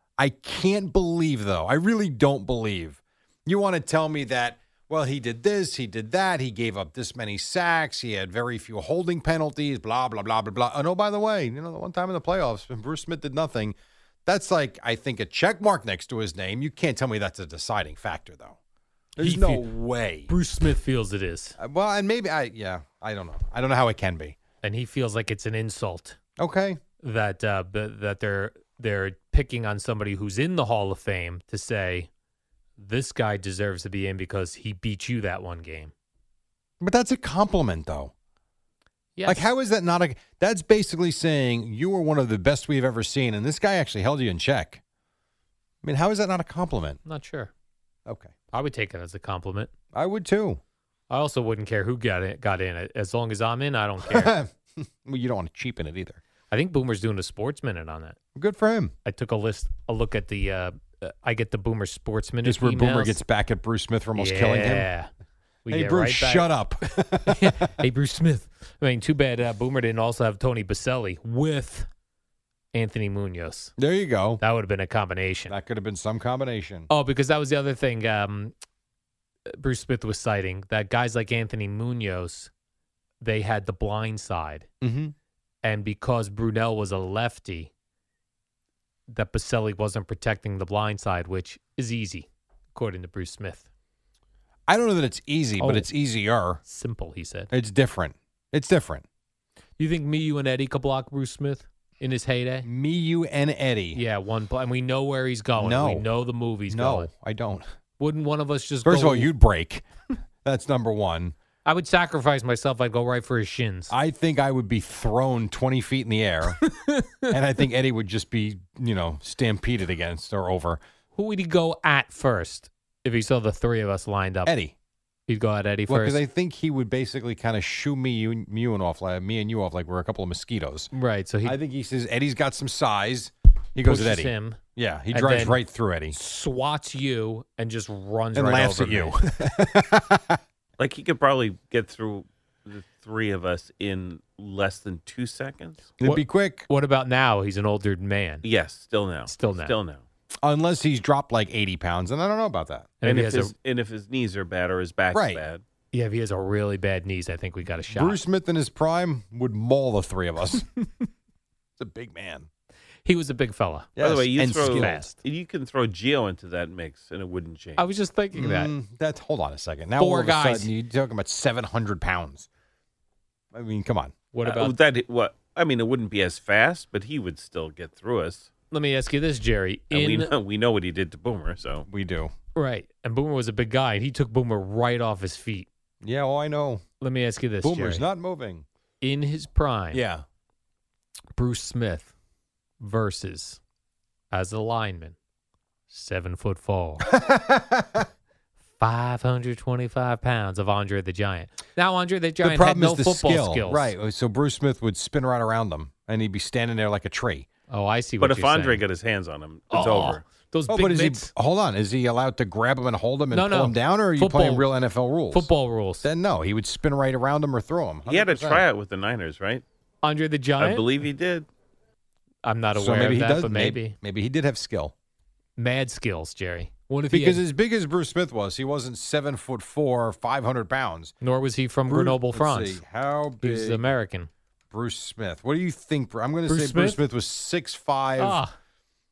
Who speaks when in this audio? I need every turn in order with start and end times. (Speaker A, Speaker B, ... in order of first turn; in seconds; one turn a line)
Speaker A: 0.2-13.8
Speaker A: 14.3-18.6
Speaker A: 19.2-20.3
Speaker B: 19.2-19.6
Speaker B: 20.3-21.6
Speaker A: 21.6-24.4
Speaker B: 24.6-26.2
Speaker A: 26.4-26.8
Speaker B: 27.0-32.1
Speaker B: 32.8-35.9
Speaker A: 36.8-38.1
Speaker B: 39.2-39.5
Speaker A: 39.3-44.8
Speaker A: 45.8-47.0
Speaker B: 47.1-47.5
Speaker A: 48.1-48.4
Speaker B: 48.5-49.7
Speaker A: 49.9-50.6
Speaker B: 51.1-54.3
Speaker A: 54.0-56.2
Speaker B: 56.5-58.2
Speaker A: 58.4-58.9
Speaker B: 59.1-63.2
Speaker A: 62.5-64.9
Speaker B: 64.2-65.1
Speaker B: 65.7-66.5
Speaker A: 65.7-67.8
Speaker B: 67.3-71.9
Speaker B: 72.7-73.7
Speaker A: 73.8-74.4
Speaker B: 74.4-75.5
Speaker A: 75.5-76.9
Speaker B: 76.9-78.5
Speaker B: 79.5-82.5
Speaker B: 83.2-84.7
Speaker A: 84.8-85.1
Speaker B: 85.6-87.7
Speaker B: 89.1-93.7
Speaker A: 94.7-96.6
Speaker B: 95.6-95.9
Speaker B: 96.7-97.5
Speaker A: 97.5-99.0
Speaker B: 99.8-102.7
Speaker A: 102.6-104.0
Speaker B: 104.0-107.1
Speaker A: 105.6-106.1
Speaker A: 106.7-107.7
Speaker B: 108.0-109.3
Speaker A: 108.8-109.8
Speaker A: 110.4-111.3
Speaker B: 111.7-113.9
Speaker A: 113.9-116.6
Speaker B: 116.6-117.4
Speaker A: 117.3-120.8
Speaker B: 121.2-124.5
Speaker A: 124.5-124.8
Speaker B: 125.3-126.2
Speaker A: 125.9-130.9
Speaker B: 130.9-131.6
Speaker A: 131.4-136.2
Speaker B: 133.8-134.6
Speaker B: 135.1-135.6
Speaker B: 136.1-139.2
Speaker A: 138.3-140.4
Speaker C: 140.8-145.9
Speaker A: 146.0-146.7
Speaker B: 146.0-148.4
Speaker C: 148.4-150.0
Speaker B: 149.3-149.8
Speaker A: 150.4-153.0
Speaker C: 153.0-155.6
Speaker B: 153.0-153.5
Speaker A: 155.1-155.4
Speaker B: 155.9-158.2
Speaker A: 157.9-160.7
Speaker A: 161.8-162.5
Speaker B: 163.1-165.2
Speaker A: 164.0-165.1
Speaker C: 164.0-167.9
Speaker B: 167.8-168.7
Speaker A: 168.3-172.5
Speaker B: 170.0-170.7
Speaker A: 173.5-174.2
Speaker B: 174.3-174.7
Speaker C: 174.4-178.5
Speaker B: 178.7-180.3
Speaker C: 179.9-181.9
Speaker A: 181.9-182.3
Speaker B: 182.6-185.7
Speaker A: 186.0-186.8
Speaker B: 187.0-188.1
Speaker A: 187.6-188.7
Speaker B: 189.0-190.0
Speaker A: 189.9-190.2
Speaker B: 191.4-192.1
Speaker B: 192.8-193.6
Speaker B: 194.3-195.2
Speaker B: 195.9-197.1
Speaker A: 197.1-198.1
Speaker B: 198.8-203.9
Speaker A: 202.4-207.5
Speaker B: 207.7-208.8
Speaker C: 208.2-210.3
Speaker B: 209.7-211.3
Speaker A: 210.7-215.5
Speaker B: 213.3-214.7
Speaker B: 215.3-216.1
Speaker A: 216.0-218.6
Speaker C: 218.1-219.6
Speaker B: 220.0-220.9
Speaker C: 220.6-221.5
Speaker B: 222.4-224.0
Speaker A: 222.8-224.9
Speaker B: 225.6-227.4
Speaker A: 227.1-231.1
Speaker B: 231.2-232.8
Speaker A: 231.9-233.9
Speaker B: 233.4-234.3
Speaker A: 234.7-238.4
Speaker B: 236.5-237.0
Speaker B: 238.2-238.5